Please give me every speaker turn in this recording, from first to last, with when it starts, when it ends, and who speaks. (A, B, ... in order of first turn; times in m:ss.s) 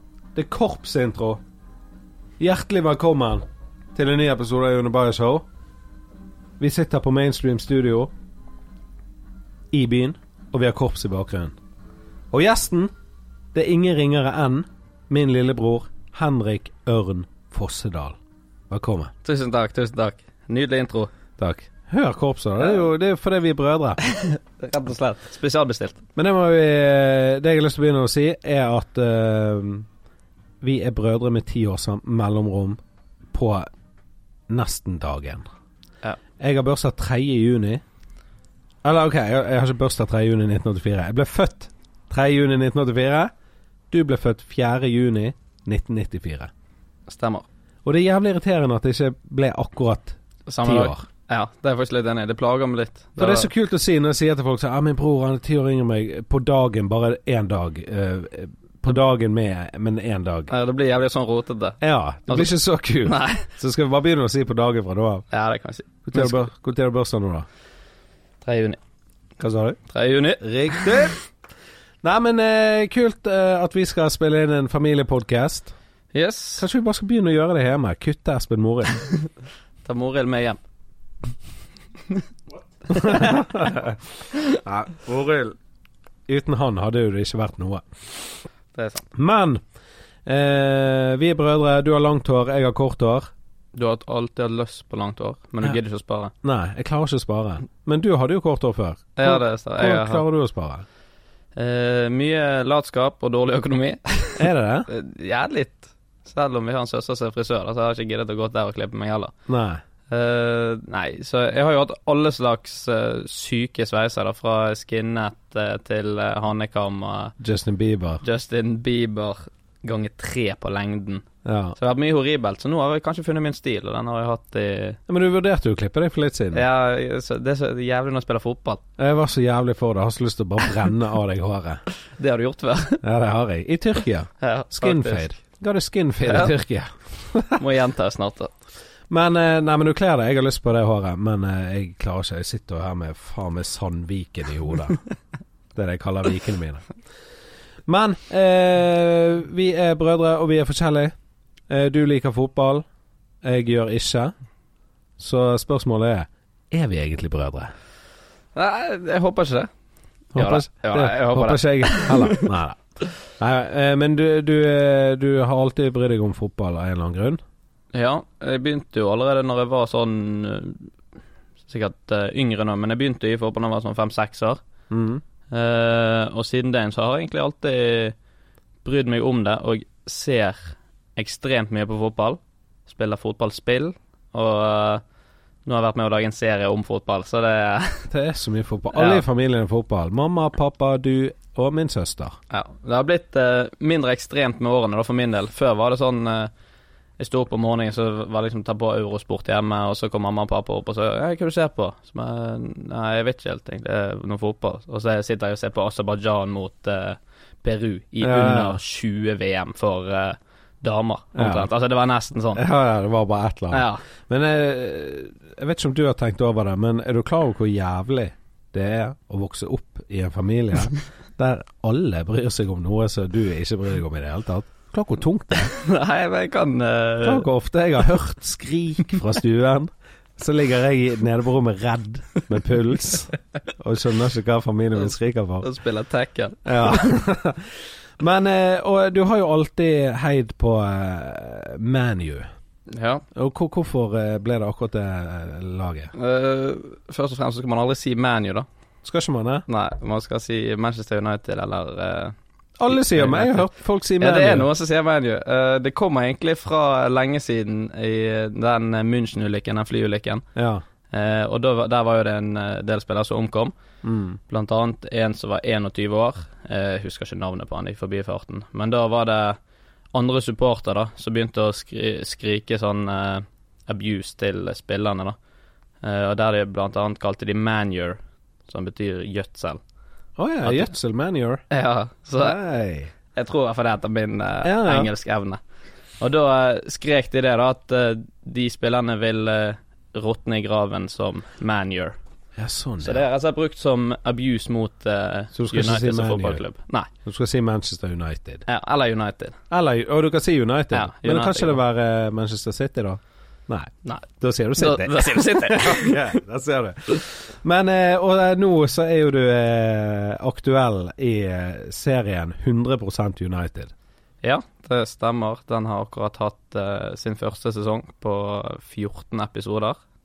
0:00.4-0:01.4 A
0:02.4-0:05.5 A
0:06.6-0:08.1 A
0:09.7-0:11.6 A
0:12.3-0:12.9 A
0:13.5-0:18.2 A
0:18.7-0:19.1 A
0:19.2-0:21.1 B
0:21.4-0:24.0 A
0:24.0-0:26.0 B
0:26.2-0:29.9 A
0:30.6-0:32.8 A
0:33.3-0:33.7 A
0:34.5-0:35.4 A
0:36.4-0:37.8 A
0:38.8-0:43.3 A
0:43.9-0:46.5 A
0:47.1-0:47.4 B
0:47.8-0:51.0 A
0:50.5-0:53.5 B
0:53.2-1:00.5 A
1:00.5-1:02.5 B
1:01.8-1:05.3 A
1:03.0-1:03.5 B
1:05.3-1:06.4 B
1:06.0-1:07.5 A
1:08.4-1:08.8 B
1:09.4-1:09.8 A
1:09.9-1:11.1 B
1:10.4-1:11.2 A
1:12.0-1:15.7 A
1:16.1-1:16.6 B
1:16.6-1:19.0 A
1:19.8-1:20.6 B
1:22.9-1:24.0 A
1:22.9-1:23.4 B
1:24.6-1:25.6 A
1:26.3-1:28.4 A
1:28.7-1:29.0 B
1:29.1-1:29.6 A
1:30.2-1:33.3 A
1:33.7-1:36.3 B
1:36.4-1:40.9 A
1:39.2-1:40.2 B
1:41.6-1:49.3 B
1:44.4-1:44.9 A
1:49.5-1:49.8 A
1:50.1-1:57.3 B
1:57.4-1:58.2 A
1:58.2-2:01.2 B
2:01.4-2:01.8 A
2:01.8-2:05.0 B
2:05.1-2:06.6 A
2:06.5-2:08.8 B
2:09.0-2:11.8 A
2:12.2-2:13.0 B
2:13.0-2:17.6 A
2:14.4-2:15.3 B
2:16.2-2:16.5 B
2:17.6-2:18.5 B
2:19.1-2:25.0 A
2:25.8-2:26.9 A
2:27.9-2:31.1 A
2:31.7-2:32.8 A
2:33.4-2:34.3 A
2:35.2-2:37.7 A
2:38.5-2:39.7 B
2:40.3-2:42.5 B
2:40.3-2:42.8 A
2:43.4-2:47.4 A
2:47.9-2:50.9 B
2:51.7-2:54.6 B
2:54.9-2:55.2 A
2:55.5-2:58.2 B
2:58.8-3:05.0 B
3:05.6-3:08.1 B
3:08.1-3:12.4 A
3:08.9-3:09.2 B
3:12.5-3:16.5 B
3:17.2-3:32.6 B
3:28.2-3:28.8 A
3:31.4-3:31.7 A
3:32.5-3:45.7 A
3:33.7-3:34.0 B
3:45.8-3:47.5 B
3:47.2-3:55.7 A
3:55.6-3:57.2 B
3:56.7-4:02.5 A
4:02.9-4:03.2 B
4:03.3-4:06.1 A
4:06.1-4:08.7 B
4:09.0-4:09.6 A
4:09.7-4:12.3 B
4:12.8-4:14.7 A
4:12.9-4:20.4 B
4:20.6-4:20.8 A
4:21.1-4:23.7 B
4:24.0-4:24.4 A
4:24.5-4:29.6 B
4:30.1-4:35.4 B
4:36.0-4:39.8 B
4:40.4-4:41.6 A
4:40.6-4:40.9 B
4:41.7-4:42.6 B
4:42.4-4:43.1 A
4:43.3-4:45.6 B
4:44.6-4:45.1 A
4:46.2-4:52.1 B
4:52.6-4:53.2 A
4:53.0-4:57.1 B
4:55.5-4:56.6 A
4:57.2-4:58.6 A
4:58.7-4:59.6 B
4:59.7-5:13.9 A
5:00.9-5:01.8 B
5:04.8-5:06.3 B
5:14.4-5:20.0 B